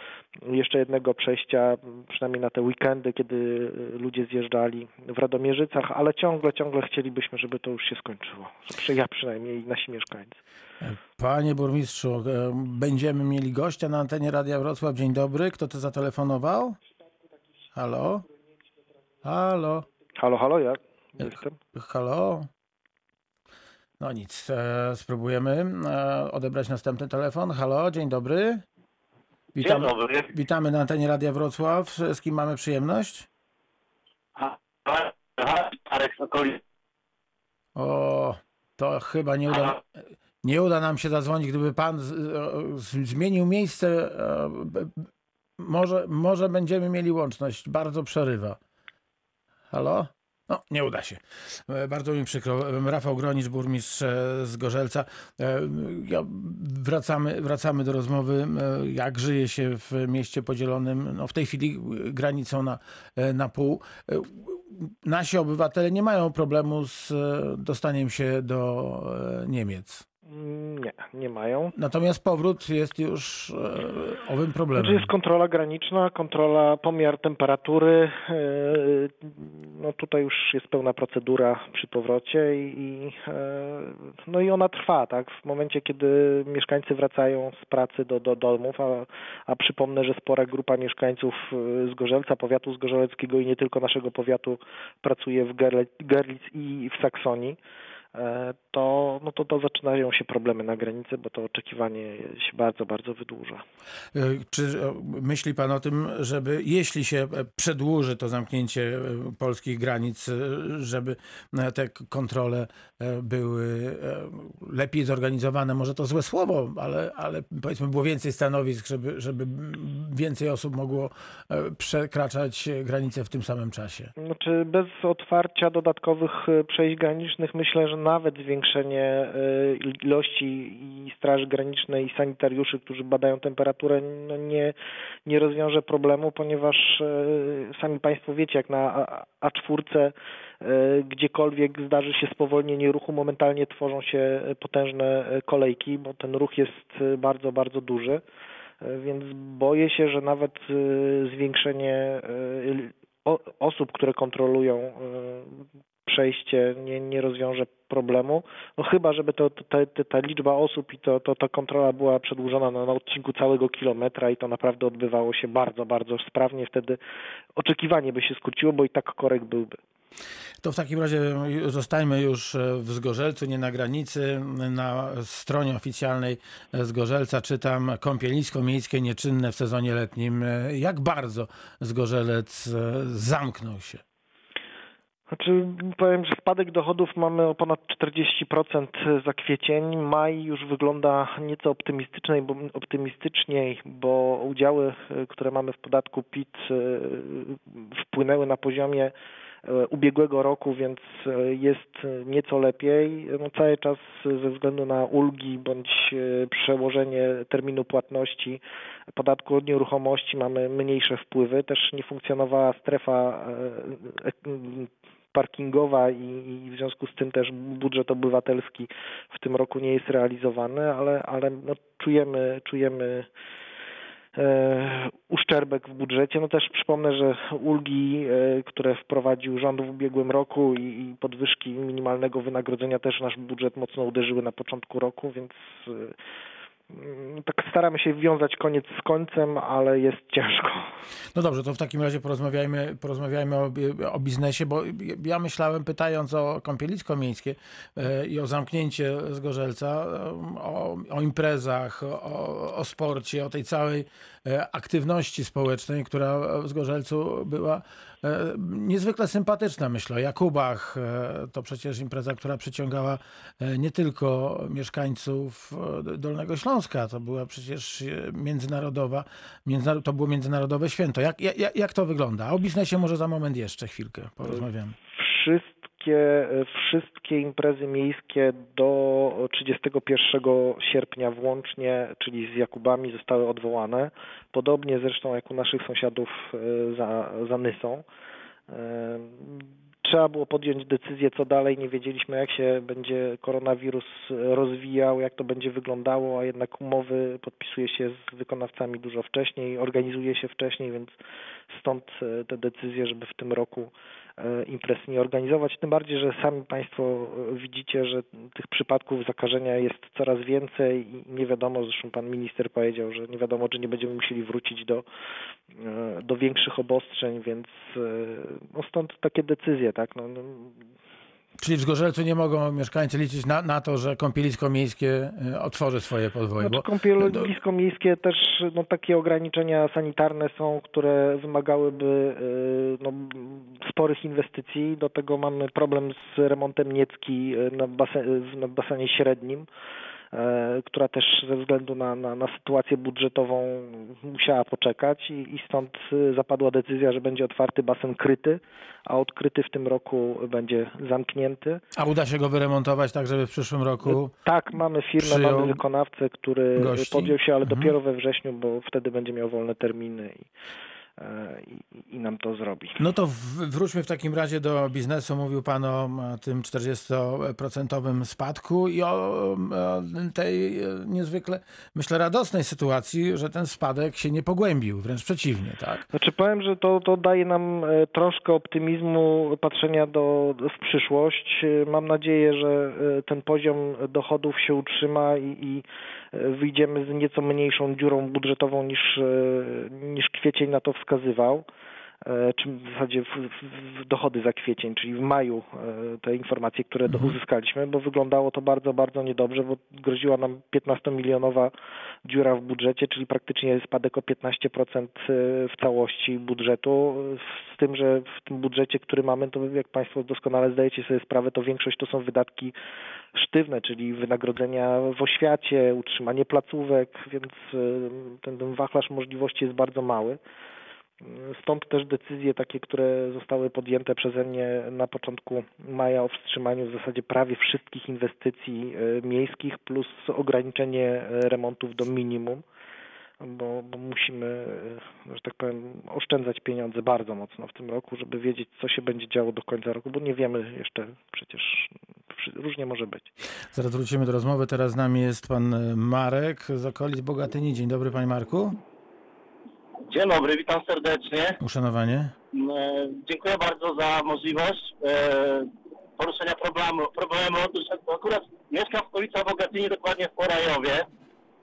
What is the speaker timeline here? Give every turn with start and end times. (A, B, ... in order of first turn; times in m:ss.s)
0:00.4-0:10.4 A
0:10.8-0:16.8 B
0:17.7-0:18.3 B
0:19.2-0:19.9 B
0:20.2-0:21.6 A
0:21.7-0:22.5 B
0:24.0-0:28.6 B
0:29.6-0:30.3 C
0:29.6-0:33.3 B
0:34.4-0:36.6 C
0:37.7-0:39.8 B
0:40.4-0:45.1 B
0:45.6-0:48.6 B
0:49.7-1:10.0 B
1:10.3-1:11.7 A
1:11.8-1:15.1 B
1:14.7-1:37.6 A
1:38.1-1:43.6 A
1:44.1-2:04.1 B
2:04.2-2:14.7 A
2:15.2-2:28.2 A
2:28.8-2:47.0 A
2:47.6-2:49.8 A
2:50.6-3:04.0 B
3:05.3-3:19.1 A
3:19.6-3:28.6 A
3:29.1-3:43.3 A
3:44.3-3:56.1 A
3:56.9-4:00.9 A
4:01.3-4:34.9 B
4:35.1-4:48.0 A
4:48.7-5:01.2 A
5:01.7-5:15.0 A
5:15.7-5:20.9 A
5:21.6-5:27.5 B
5:26.6-5:39.7 A
5:40.3-5:51.8 A
5:52.0-5:54.3 B
5:54.0-6:00.5 A
5:55.2-5:55.8 B
5:56.8-5:57.9 B
6:01.2-6:03.0 A
6:03.0-6:16.0 B
6:16.1-6:31.6 A
6:32.2-6:41.7 A
6:42.2-6:52.7 A
6:53.3-7:00.4 A
7:01.2-7:12.6 A
7:13.4-7:23.3 A
7:23.7-7:28.8 B
7:30.0-7:31.6 C
7:31.6-7:32.3 B
7:32.5-7:41.0 C